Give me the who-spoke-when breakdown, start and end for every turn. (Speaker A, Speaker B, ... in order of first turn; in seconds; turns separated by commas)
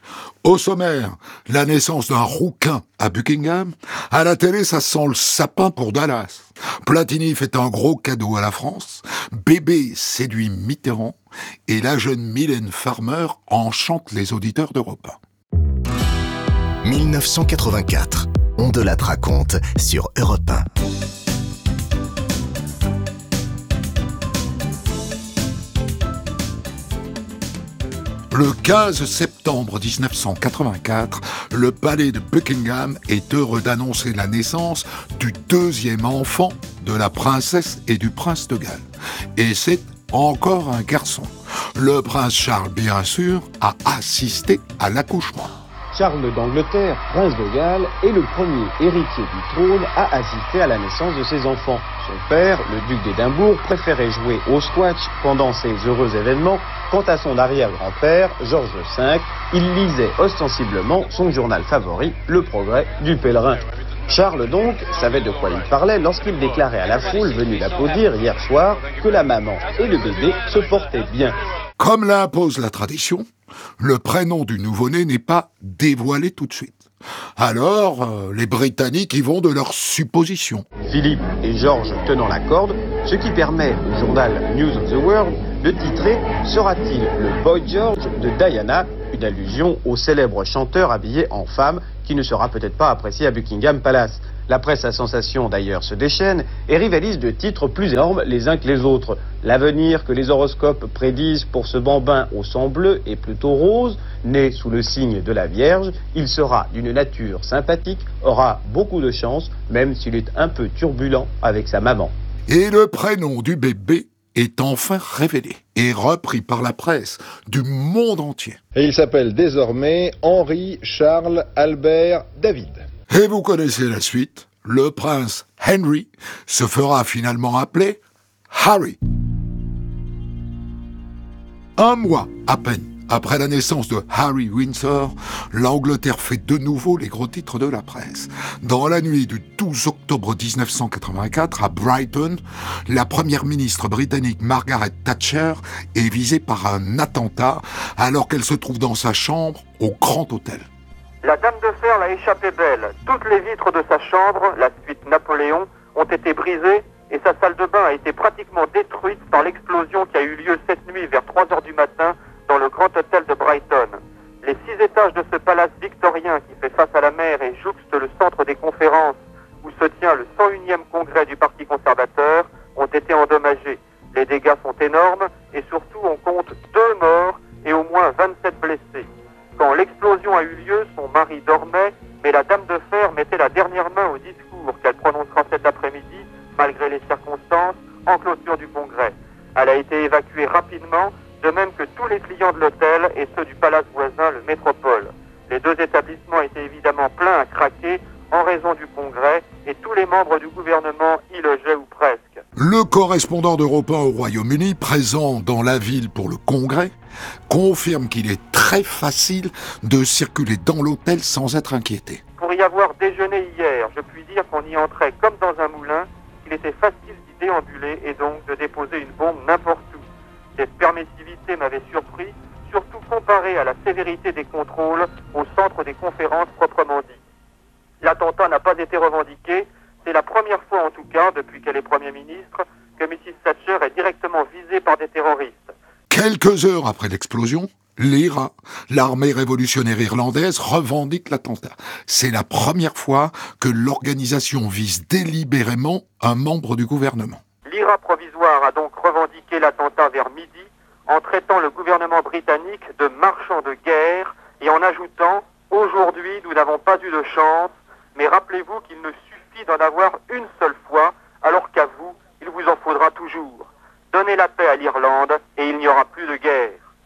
Speaker A: 0.4-15.2, Speaker B: 16.8-20.6, Speaker A: 28.3-38.8, Speaker A: 39.4-45.5, Speaker C: 45.9-71.4, Speaker A: 71.8-73.3, Speaker A: 73.8-76.8, Speaker A: 77.4-80.7, Speaker C: 80.8-112.1, Speaker A: 112.5-118.6, Speaker D: 118.7-122.8, Speaker A: 123.1-129.0, Speaker A: 131.8-150.7, Speaker E: 151.2-202.4, Speaker A: 202.6-206.9, Speaker A: 207.5-212.2, Speaker E: 212.4-220.0, Speaker E: 220.6-227.2, Speaker E: 228.0-235.7, Speaker A: 236.1-247.4, Speaker E: 247.6-266.8